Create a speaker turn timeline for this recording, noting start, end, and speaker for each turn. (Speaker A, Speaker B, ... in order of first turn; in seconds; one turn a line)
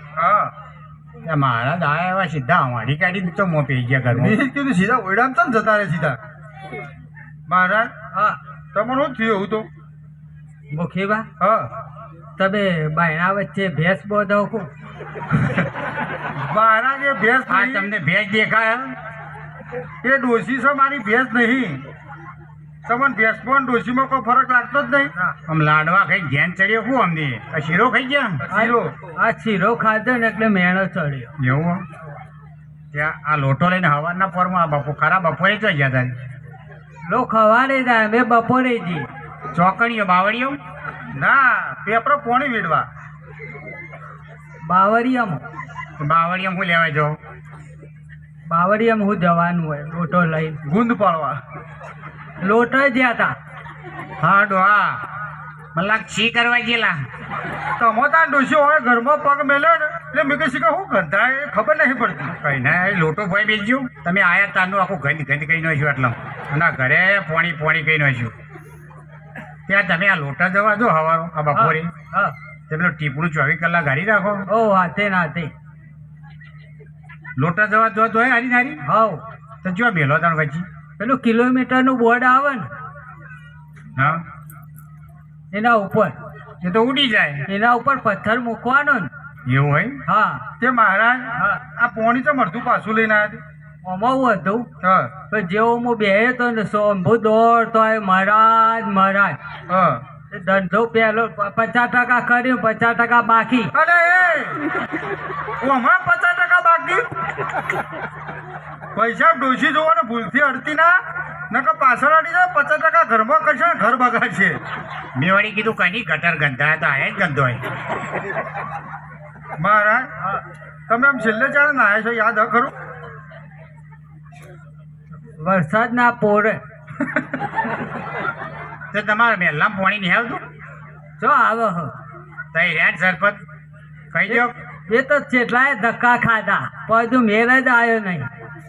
Speaker A: 0.2-0.5
Speaker B: 1.2-4.4
Speaker A: 4.1-6.2
Speaker A: 7.5-7.9
Speaker C: 8.1-8.4
Speaker A: 8.8-9.7
Speaker C: 10.7-11.3
Speaker A: 11.4-11.7
Speaker C: 12.4-14.7
Speaker A: 16.4-17.9
Speaker B: 17.5-19.0
Speaker A: 20.0-21.8
Speaker A: 22.9-25.1
Speaker B: 25.5-28.4
Speaker A: 28.4-28.9
Speaker C: 28.5-31.3
Speaker B: 31.4-31.9
Speaker B: 32.9-36.1
Speaker C: 37.0-39.1
Speaker B: 39.5-40.6
Speaker A: 41.1-42.9
Speaker C: 44.6-45.4
Speaker B: 46.0-47.2
Speaker C: 48.5-50.6
Speaker A: 50.6-51.4
Speaker C: 52.4-53.4
Speaker B: 54.2-55.0
Speaker B: 55.8-57.0
Speaker A: 57.8-62.3
Speaker B: 62.4-68.3
Speaker B: 69.7-71.9
Speaker C: 71.5-72.3
Speaker B: 72.7-74.5
Speaker C: 74.5-75.5
Speaker B: 77.4-78.8
Speaker C: 78.8-79.2
Speaker B: 79.6-80.7
Speaker C: 81.0-82.7
Speaker B: 84.0-84.2
Speaker C: 85.5-86.2
Speaker B: 86.6-87.5
Speaker C: 87.5-89.1
Speaker B: 89.5-90.0
Speaker C: 90.1-90.5
Speaker A: 90.6-93.4
Speaker C: 91.4-91.6
Speaker C: 93.8-94.7
Speaker A: 94.8-95.1
Speaker C: 95.3-99.4
Speaker A: 99.7-100.0
Speaker C: 100.3-103.7
Speaker A: 103.7-104.6
Speaker A: 105.6-107.1
Speaker A: 109.0-111.0
Speaker A: 111.5-114.6
Speaker B: 115.2-117.6
Speaker A: 119.6-120.1
Speaker A: 120.9-122.7
Speaker C: 125.4-126.6
Speaker B: 128.9-130.4
Speaker C: 131.2-131.9
Speaker B: 132.5-133.4
Speaker B: 134.1-134.5
Speaker C: 134.3-138.3